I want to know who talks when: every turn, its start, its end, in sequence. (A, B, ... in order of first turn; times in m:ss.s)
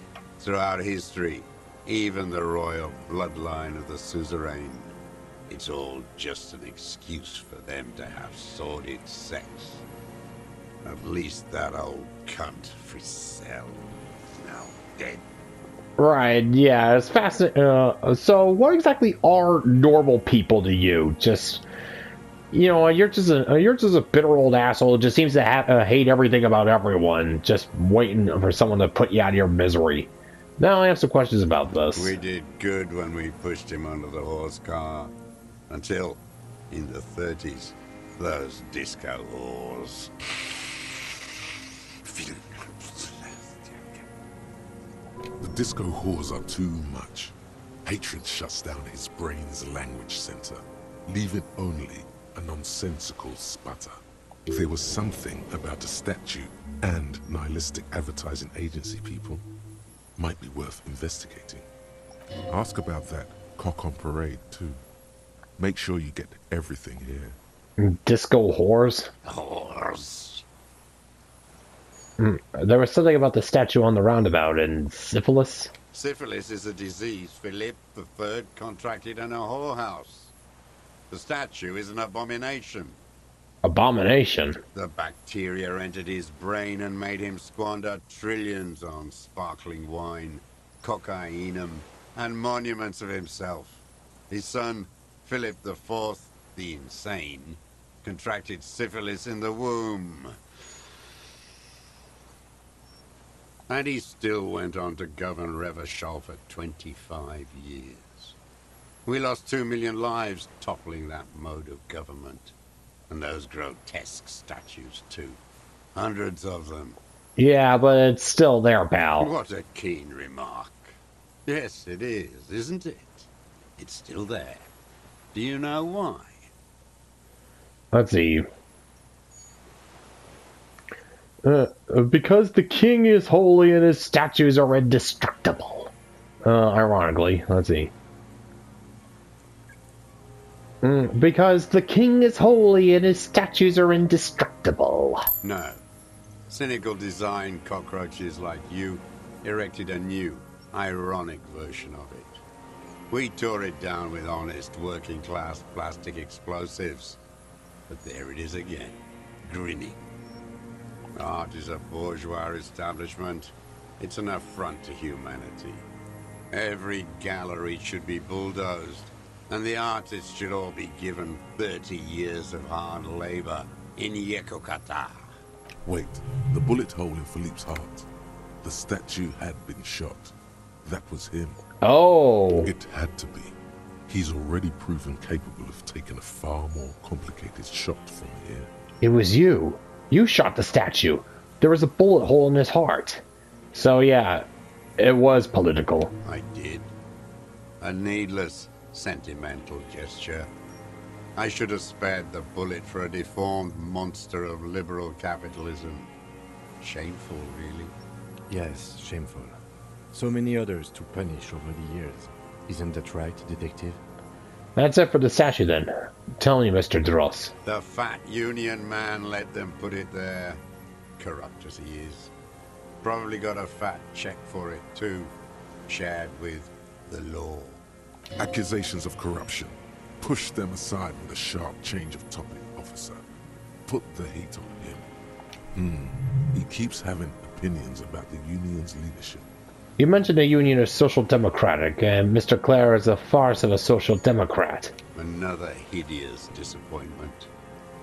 0:00.4-0:05.0 A
0:05.5-0:09.8 A
0:10.8-0:15.2 A
0:16.0-0:21.6 B
0:22.5-0:32.2 B
0:32.0-0:35.1 A
0:35.7-0:40.9 A
0:42.0-0:44.1 A
0:45.4-0:59.4 C
1:00.2-1:01.7 C
1:02.5-1:04.8 C
1:05.6-1:07.4 C
1:07.8-1:09.1 B
1:09.2-1:10.4 A
1:12.2-1:15.7 B
1:15.9-1:20.3 A
1:21.1-1:23.0 A
1:23.6-1:24.6 B
1:24.8-1:40.4 A
1:43.7-1:48.4 A
1:49.1-1:52.5 A
1:53.1-1:55.4 A
1:56.0-1:57.0 A
1:57.4-1:59.3 B
1:59.2-2:04.7 A
2:05.3-2:06.5 A
2:07.9-2:08.5 B
2:11.4-2:15.9 B
2:16.4-2:17.9 B
2:20.8-2:25.3 B
2:25.4-2:25.8 A
2:26.5-2:32.4 A
2:33.1-2:37.2 A
2:37.9-2:40.1 A
2:41.2-2:45.9 A
2:46.5-2:55.3 A
2:55.8-2:58.1 C
2:58.6-3:01.6 C
3:01.8-3:02.7 B
3:02.6-3:03.6 C
3:04.1-3:08.7 C
3:09.0-3:13.2 B
3:13.7-3:14.5 B
3:15.0-3:16.1 B
3:16.2-3:16.9 A
3:17.8-3:20.5 A
3:21.4-3:26.1 A
3:26.8-3:28.0 A
3:28.5-3:29.6 D
3:30.1-3:34.0 D
3:34.8-3:37.5 B
3:37.6-3:40.6 A
3:41.2-3:42.3 A
3:43.0-3:45.3 A
3:45.9-3:47.8 A
3:48.4-3:53.2 C
3:53.9-3:55.1 C
3:55.7-3:59.5 C
4:00.0-4:04.9 B
4:05.2-4:07.5 A